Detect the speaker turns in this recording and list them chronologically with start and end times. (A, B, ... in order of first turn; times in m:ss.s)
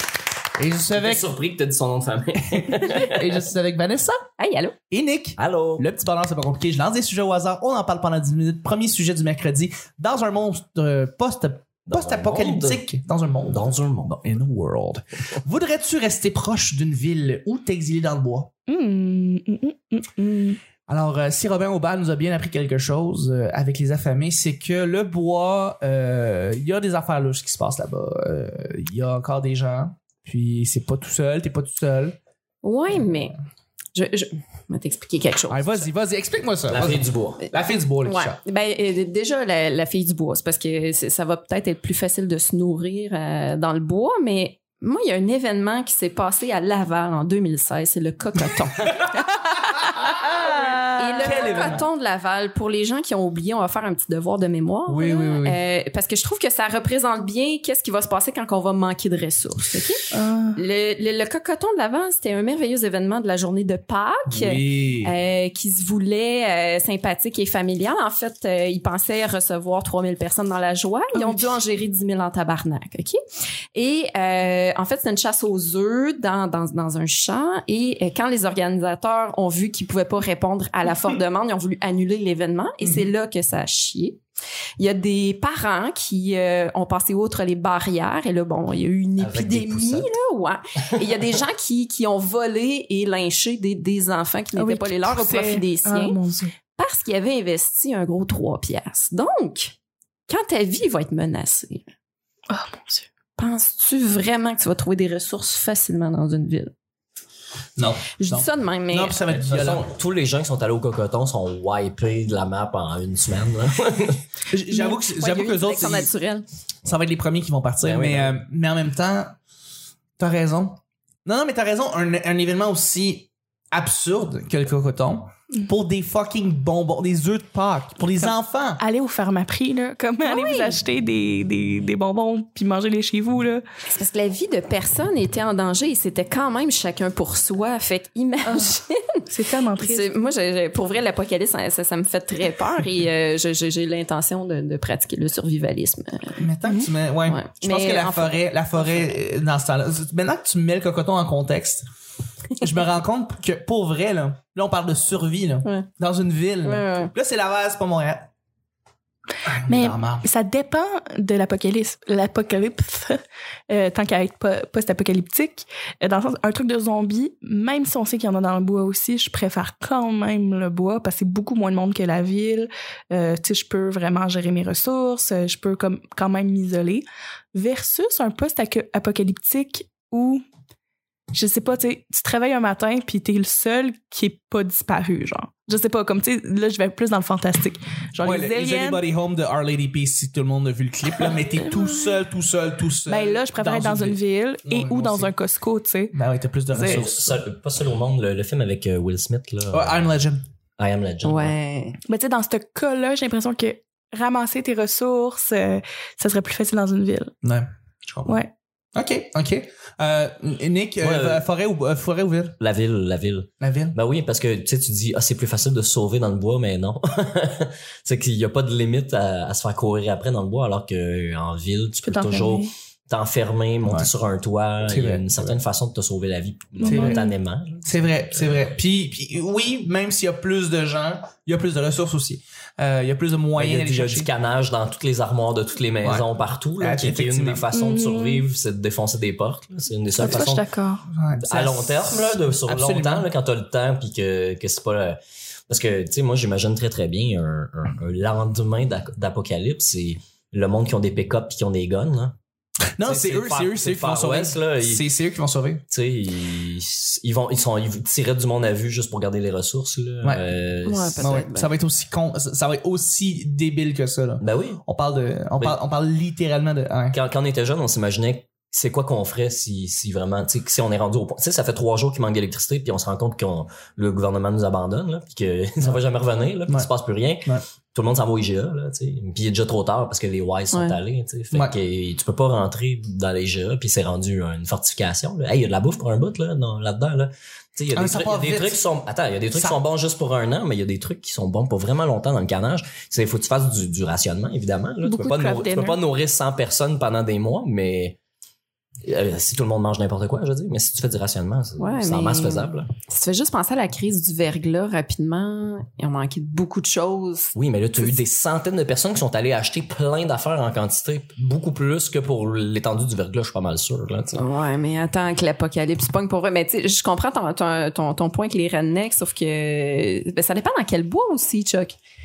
0:00.6-0:01.2 A
0:01.0-0:03.2 B
0:02.4-0:04.2 A
0:04.4-0:04.7 C
0:04.9-0:18.5 A
0:05.4-0:05.8 B
0:11.9-0:12.8 B
0:13.5-0:14.1 B
0:18.7-0:20.6 D
0:20.9-0:32.2 A
0:32.6-0:33.3 C
0:33.9-0:35.9 C
0:35.5-0:38.4 A
0:36.7-0:37.4 B
0:38.0-0:48.9 C
0:50.9-1:13.2 C
0:51.2-0:51.8 A
0:51.2-0:51.6 D
0:54.9-0:55.6 A
1:00.1-1:00.6 D
1:04.3-1:05.1 A
1:11.1-1:11.4 D
1:13.7-1:24.2 C
1:24.8-1:36.2 C
1:29.2-1:30.1 B
1:34.5-1:36.5 D
1:36.8-1:39.8 C
1:40.3-1:41.9 C
1:42.5-1:43.0 D
1:43.4-1:46.7 C
1:47.8-1:49.9 A
1:48.2-1:49.2 C
1:49.3-1:54.2 B
1:54.5-1:56.1 A
1:54.7-1:56.4 C
1:56.8-1:59.4 A
1:57.8-1:58.4 B
2:00.2-2:08.8 A
2:08.2-2:13.6 D
2:10.2-2:10.8 C
2:13.9-2:19.0 C
2:18.5-2:18.7 D
2:19.3-2:20.1 D
2:19.8-2:26.4 C
2:26.4-2:31.8 A
2:27.2-2:29.1 C
2:32.6-2:38.2 A
2:36.6-2:37.1 C
2:39.4-2:40.3 A
2:39.7-3:00.4 D
3:01.3-3:09.0 D
3:08.2-3:15.3 A
3:11.3-3:12.1 D
3:13.0-3:16.1 D
3:16.1-3:17.4 A
3:16.7-3:20.2 B
3:16.7-3:17.0 D
3:19.7-3:20.4 A
3:20.8-3:21.5 B
3:21.2-3:22.0 C
3:22.1-3:27.3 D
3:27.4-3:28.4 A
3:28.3-3:28.5 D
3:28.9-3:32.6 A
3:31.0-3:31.4 B
3:32.6-3:47.8 B
3:33.6-3:34.0 A
3:42.0-3:42.7 D
3:43.8-3:44.1 A
3:44.8-3:45.6 A
3:46.8-3:47.2 D
3:46.9-3:47.2 C
3:47.8-3:54.3 A
3:53.6-4:00.6 B
3:56.0-3:57.6 A
3:57.8-3:58.4 D
4:00.2-4:01.0 D
4:01.1-4:03.3 A
4:01.4-4:05.2 B
4:05.7-4:12.3 B
4:13.0-4:15.8 A
4:13.0-4:15.0 B
4:15.9-4:21.2 B
4:20.8-4:21.7 C
4:21.2-4:27.2 A
4:24.4-4:24.8 B
4:27.1-4:58.2 B
4:40.7-4:41.0 C
4:47.9-4:48.8 A
4:49.5-4:49.8 A
4:55.1-4:55.9 C
4:55.1-4:55.7 D
4:59.0-5:02.9 B
5:01.8-5:08.2 C
5:07.5-5:14.4 B
5:14.3-5:22.0 C